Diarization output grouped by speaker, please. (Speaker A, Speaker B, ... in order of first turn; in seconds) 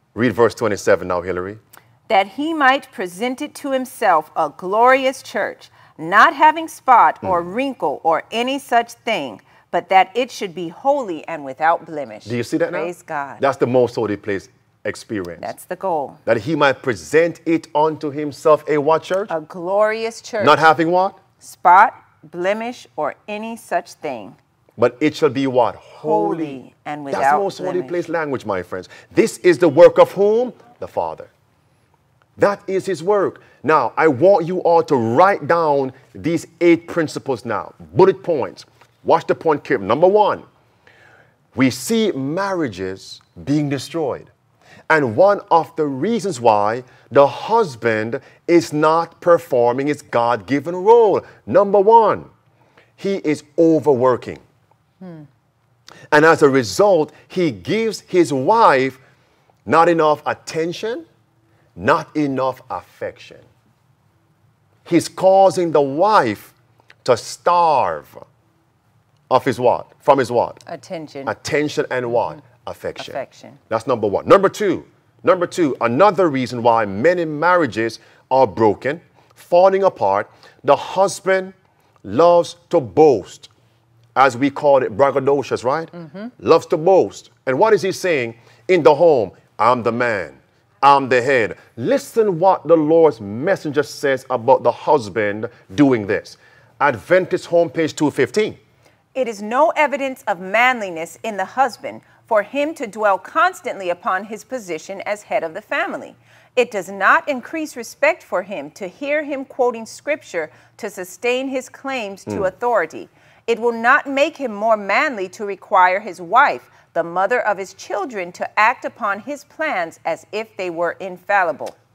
Speaker A: 0.1-1.6, 12.2-15.5, 16.3-19.3, 20.4-21.2, 24.8-26.6, 27.1-31.3, 32.4-40.5, 41.5-44.3, 44.9-52.3, 53.0-54.4, 56.1-59.0, 59.7-61.0, 61.8-63.5, 64.8-68.2, 69.3-70.6, 71.3-83.5, 84.2-98.6
Speaker B: 2.1-13.4, 15.4-16.2, 19.3-20.6, 21.4-24.4, 26.0-27.9, 70.7-71.3, 73.0-73.6, 99.2-121.8